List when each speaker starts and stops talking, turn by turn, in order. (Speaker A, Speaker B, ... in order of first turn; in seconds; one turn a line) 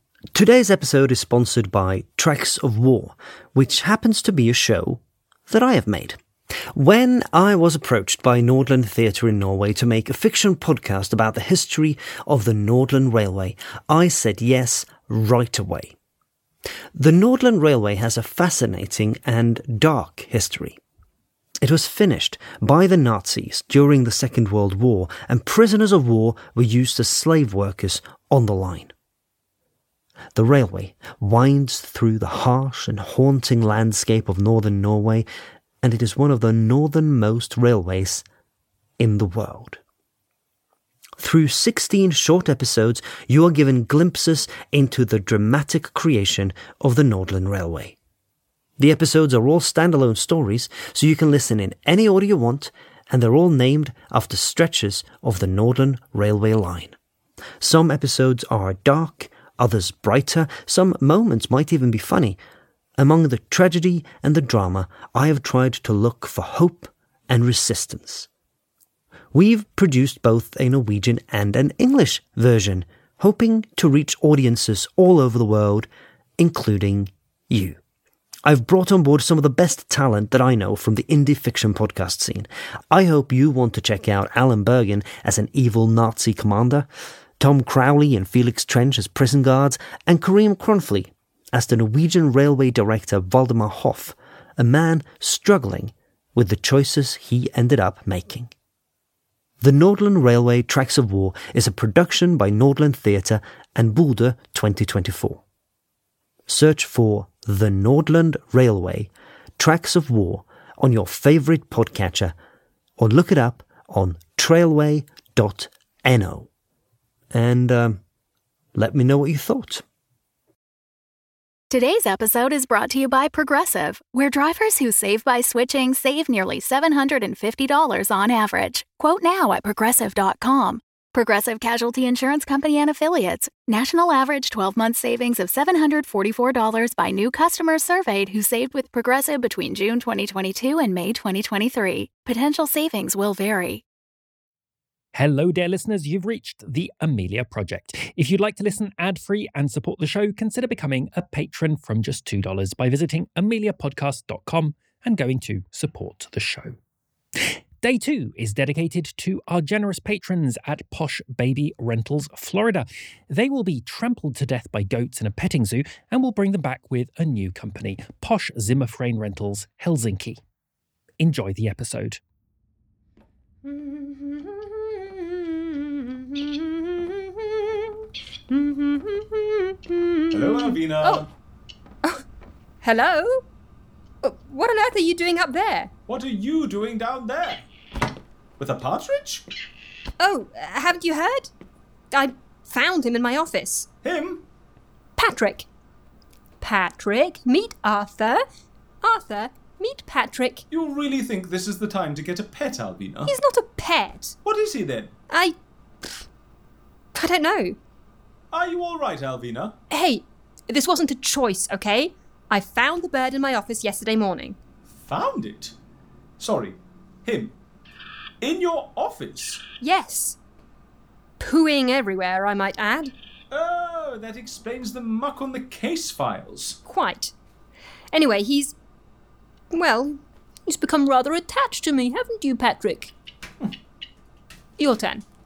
Speaker A: 0.3-6.2
Speaker A: 6.7-15.9
Speaker A: 17.0-20.8
Speaker A: 21.6-28.9
Speaker A: 30.4-35.2
Speaker A: 35.8-38.2
Speaker A: 39.0-39.8
Speaker A: 41.2-48.0
Speaker A: 48.8-57.0
Speaker A: 57.6-62.4
Speaker A: 63.0-68.3
Speaker A: 69.3-77.8
Speaker A: 78.5-86.9
Speaker A: 87.4-98.5
Speaker A: 99.6-105.4
Speaker A: 106.5-112.3
Speaker A: 113.0-116.5
Speaker A: 117.3-118.0
Speaker A: 118.8-119.8
Speaker B: 121.7-143.8
Speaker C: 145.1-156.8
Speaker C: 157.8-170.4
Speaker C: 171.2-172.2
Speaker D: 173.6-181.3
Speaker E: 180.3-181.3
Speaker D: 182.8-183.4
Speaker D: 184.2-185.9
Speaker E: 186.1-187.7
Speaker E: 188.6-189.5
Speaker D: 190.2-191.5
Speaker D: 192.1-193.9
Speaker E: 194.0-194.4
Speaker D: 195.2-195.7
Speaker D: 196.6-198.4
Speaker D: 199.0-200.6
Speaker E: 200.7-203.3
Speaker D: 203.3-204.3
Speaker E: 204.4-205.1
Speaker D: 205.3-205.6
Speaker D: 207.2-207.8
Speaker E: 208.5-209.8
Speaker D: 209.9-214.6
Speaker E: 215.0-215.7
Speaker E: 216.4-217.6
Speaker E: 218.4-219.6
Speaker D: 219.8-220.4
Speaker D: 221.4-223.1
Speaker E: 223.5-226.8
Speaker D: 226.8-227.3
Speaker D: 228.1-228.8
Speaker D: 229.7-233.1
Speaker D: 234.8-235.2